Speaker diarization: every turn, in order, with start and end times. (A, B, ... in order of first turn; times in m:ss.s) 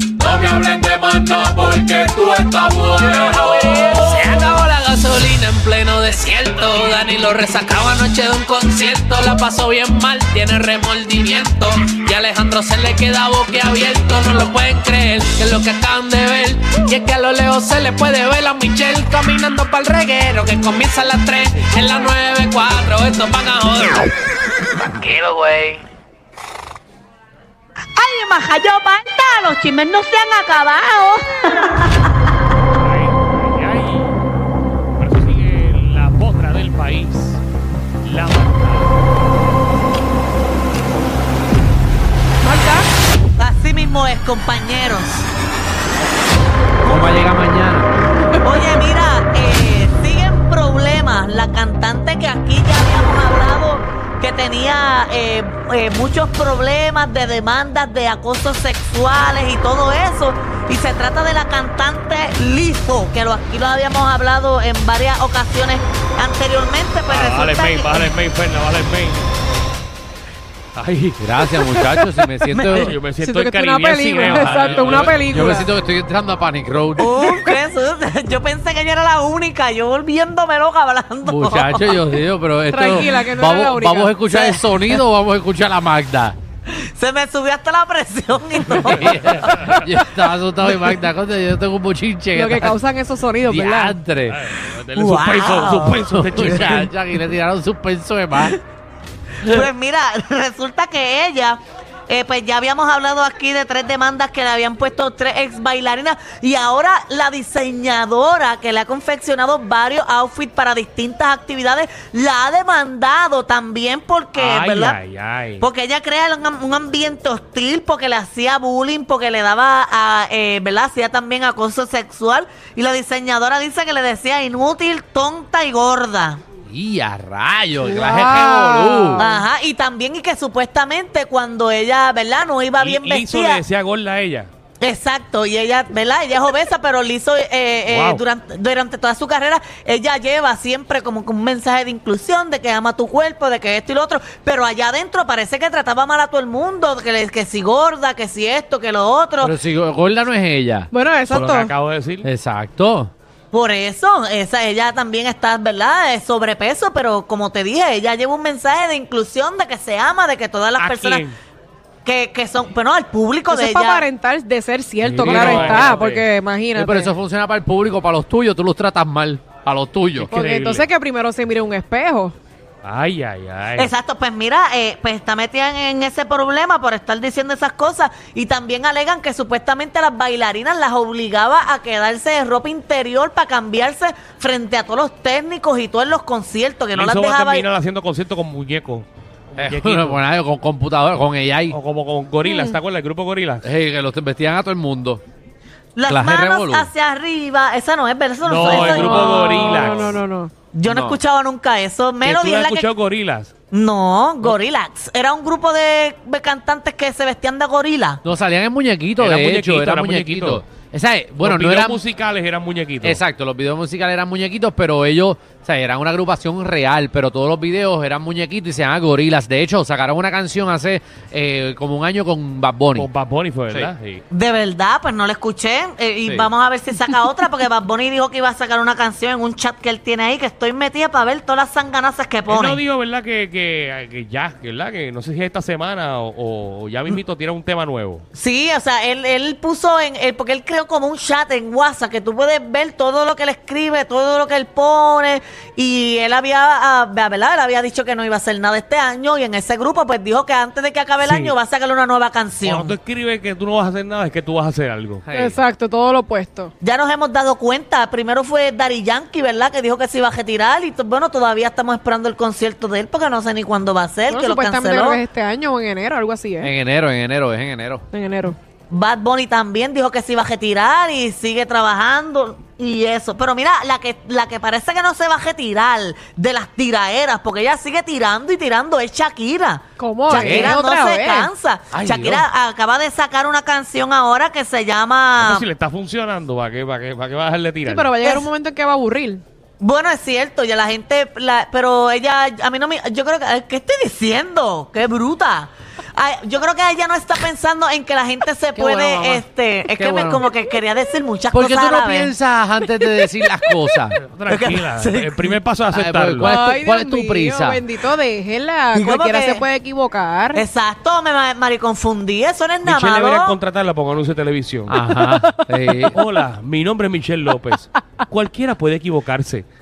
0:00.2-0:24.1 A
0:25.0-0:25.8 A
0:28.0-0:31.8 B
0:32.8-0:34.2 C
0:35.0-0:37.4 C
0:38.0-0:39.0 C
0:42.4-0:42.9 D
0:43.4-0:45.3 B
0:46.8-0:47.9 E
0:48.4-1:08.1 B
1:07.1-1:09.3 C
1:10.8-1:11.3 C
1:11.2-1:13.0 E
1:11.7-1:12.3 D
1:12.5-1:13.0 B
1:12.7-1:15.3 C
1:13.2-1:15.7 D
1:14.7-1:17.1 E
1:17.0-1:22.1 B
1:17.2-1:17.4 D
1:21.2-1:26.4 E
1:22.7-1:24.2 D
1:24.3-1:25.0 B
1:26.7-1:29.8 B
1:28.7-1:32.8 E
1:30.6-1:31.0 B
1:32.3-1:34.0 D
1:33.5-1:34.4 E
1:34.3-1:36.9 C
1:34.9-1:36.1 B
1:36.1-1:38.6 E
1:39.4-1:55.0 B
1:54.4-1:55.7 C
1:55.6-2:06.4 B
2:06.7-2:09.2 E
2:07.8-2:09.4 D
2:09.2-2:13.6 B
2:12.8-2:14.5 C
2:14.8-2:29.6 B
2:17.9-2:18.2 C
2:29.4-2:30.9 E
2:30.9-2:31.7 D
2:31.3-2:32.3 C
2:32.2-2:33.1 E
2:33.5-2:41.2 B
2:40.8-2:41.4 C
2:42.0-2:44.1 B
2:43.5-2:47.1 D
2:45.0-2:46.3 C
2:45.2-2:46.0 E
2:46.8-2:50.3 E
2:50.2-2:50.9 C
2:50.3-2:52.4 D
2:52.8-2:53.9 C
2:53.8-3:07.7 B
3:06.9-3:10.2 C
3:09.6-3:11.8 E
3:11.7-3:13.7 C
3:12.4-3:12.8 D
3:13.6-3:15.2 E
3:16.0-3:19.8 B
3:16.1-3:16.9 E
3:18.4-3:20.2 C
3:18.7-3:20.5 D
3:19.1-3:19.3 E
3:19.9-3:20.1 E
3:20.7-3:22.9 B
3:20.9-3:21.2 E
3:22.2-3:23.5 C
3:23.7-3:28.2 B
3:28.2-3:32.0 E
3:29.2-3:30.6 C
3:31.4-3:33.2 C
3:33.0-3:43.1 E
3:43.0-3:44.2 C
3:44.3-3:52.8 B
3:52.5-3:58.2 C
3:58.3-4:13.0 B
4:12.6-4:15.2 C
4:15.3-4:15.6 E
4:15.3-4:16.7 D
4:16.8-4:25.2 B
4:24.3-4:26.7 D
4:26.6-4:28.0 E
4:28.1-4:28.6 D
4:28.9-4:45.6 B
4:40.0-4:41.5 D
4:40.3-4:40.7 E
4:41.9-4:42.4 E
4:45.4-4:48.4 C
4:47.9-4:49.4 D
4:48.2-4:48.5 B
4:49.8-5:02.3 B
4:58.8-5:00.4 E
5:01.5-5:04.2 E
5:03.1-5:03.9 B
5:04.2-5:06.5 C
5:04.5-5:05.6 B
5:05.9-5:07.8 E
5:06.4-5:10.6 D
5:08.9-5:09.6 B
5:10.5-5:13.6 B
5:12.8-5:15.0 C
5:14.9-5:16.2 E
5:15.0-5:16.2 D
5:16.1-5:19.7 C